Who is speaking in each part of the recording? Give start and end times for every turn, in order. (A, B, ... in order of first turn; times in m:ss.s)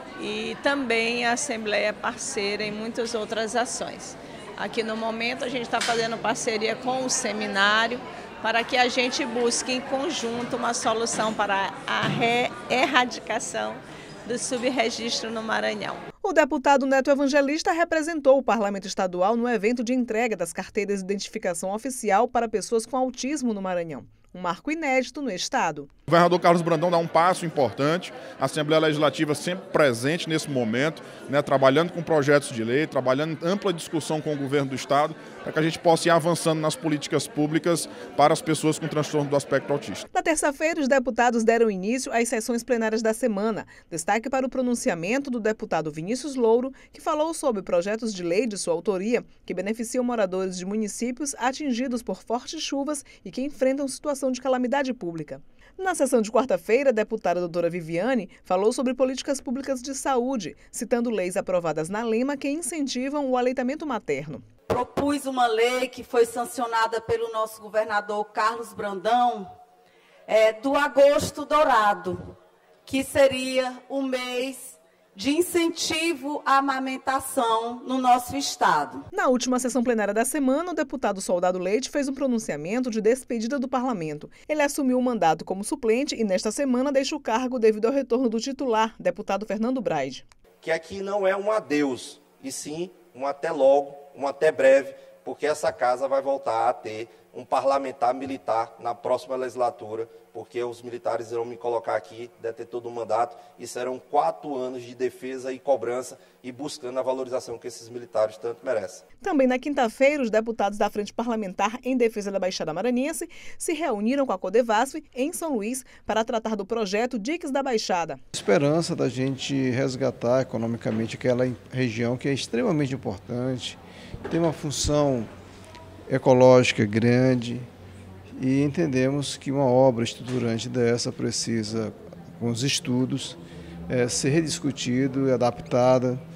0:00.2-0:16.0 A
0:16.2-0:25.9 B
0:26.1-0:40.0 C
0:40.1-1:04.4 B
1:04.7-1:09.5 D
1:10.3-1:12.2 D
1:12.8-1:19.0 D
1:19.1-1:30.2 B
1:30.6-1:49.0 E
1:49.2-1:58.2 B
1:58.3-2:05.3 F
2:06.1-2:07.7 F
2:08.4-2:16.2 F